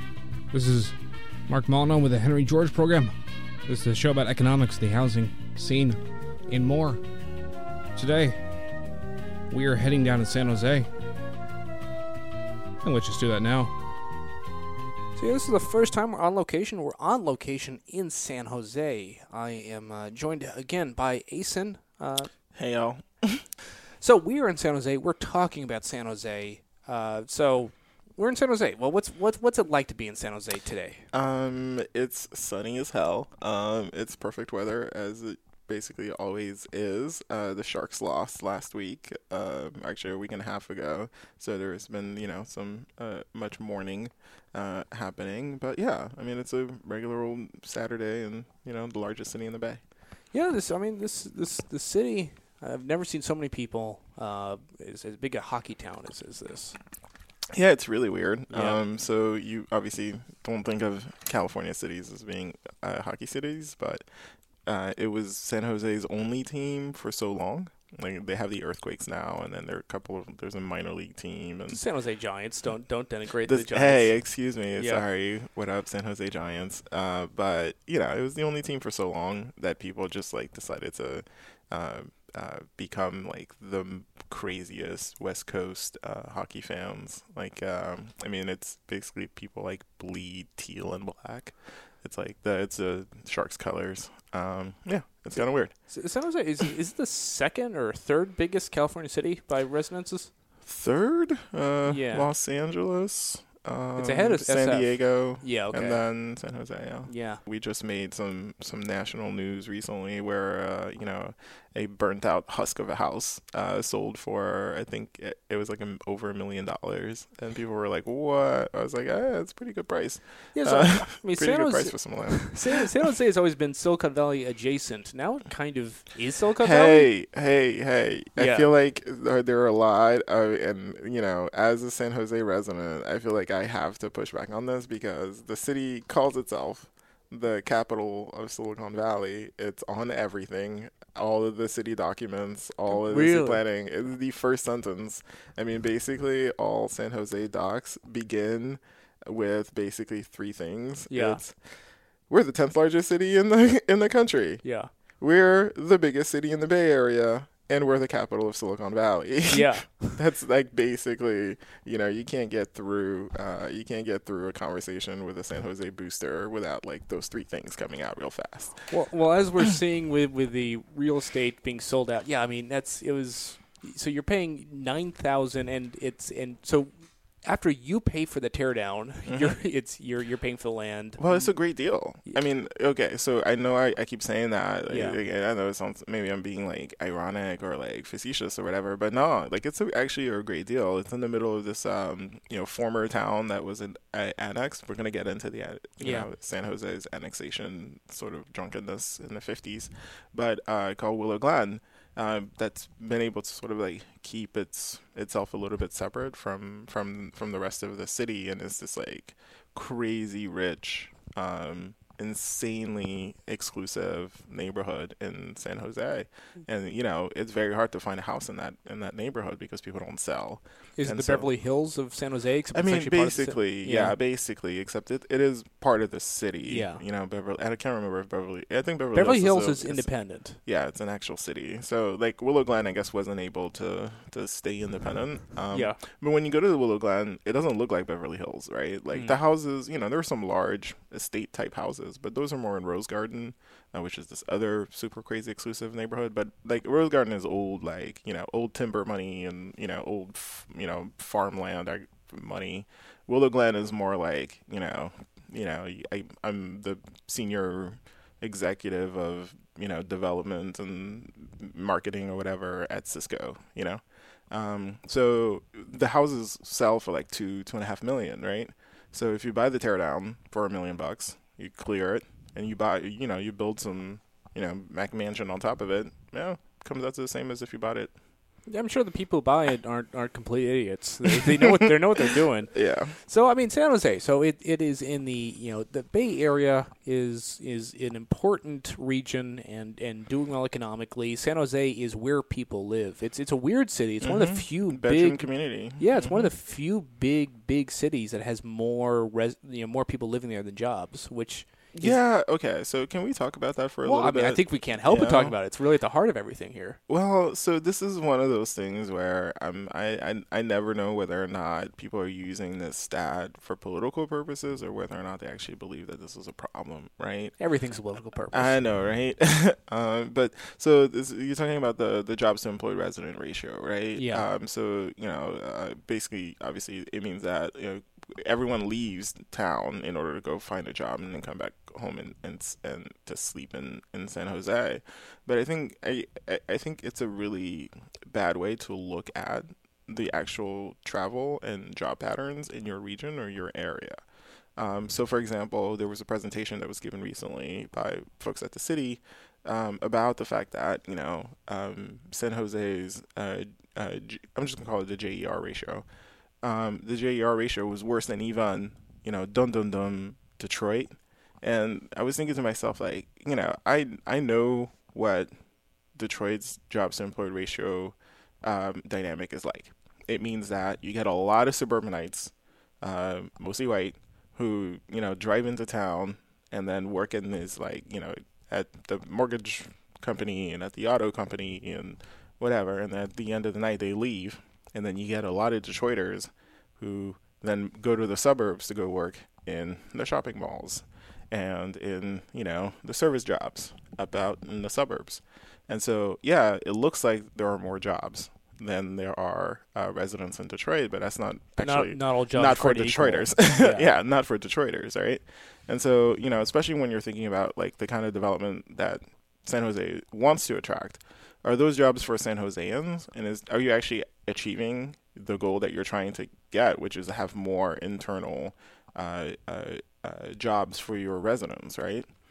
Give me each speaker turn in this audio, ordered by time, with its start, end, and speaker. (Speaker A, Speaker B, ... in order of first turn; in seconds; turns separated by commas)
Speaker A: 0.5-1.0, Speaker A: 1.5-3.1, Speaker A: 3.7-7.0, Speaker A: 8.0-8.4, Speaker A: 9.5-10.9, Speaker A: 12.8-13.7, Speaker B: 15.2-22.3, Speaker C: 22.5-23.5, Speaker B: 24.0-31.1, Speaker C: 31.1-49.8, Speaker B: 50.3-56.8, Speaker C: 57.5-64.0, Speaker B: 58.5-58.8, Speaker C: 64.7-71.8, Speaker B: 71.7-74.2, Speaker C: 73.5-95.8, Speaker B: 74.8-75.0, Speaker B: 95.9-100.3, Speaker C: 100.7-122.9, Speaker B: 101.9-102.3, Speaker B: 104.0-106.0, Speaker B: 107.1-107.4, Speaker B: 120.5-127.1, Speaker C: 126.6-154.6, Speaker B: 128.4-128.7, Speaker B: 142.9-143.6, Speaker B: 151.1-151.4, Speaker B: 154.6-154.9, Speaker C: 155.2-168.9, Speaker B: 159.5-160.2, Speaker B: 168.9-181.5, Speaker C: 179.3-179.6, Speaker C: 181.2-221.5, Speaker B: 184.9-185.2, Speaker B: 196.0-196.3, Speaker B: 221.0-224.2, Speaker C: 222.7-230.1, Speaker B: 226.7-227.0, Speaker B: 229.2-230.6, Speaker C: 230.6-278.1, Speaker B: 235.7-236.0, Speaker B: 278.7-302.2, Speaker C: 281.2-283.1, Speaker C: 294.2-296.5, Speaker C: 301.9-305.6, Speaker B: 304.0-307.0, Speaker C: 307.1-317.6, Speaker B: 317.6-318.8, Speaker C: 318.5-344.2, Speaker B: 324.2-324.5, Speaker C: 344.8-356.1, Speaker C: 356.6-365.5, Speaker C: 366.1-422.3, Speaker B: 401.8-404.1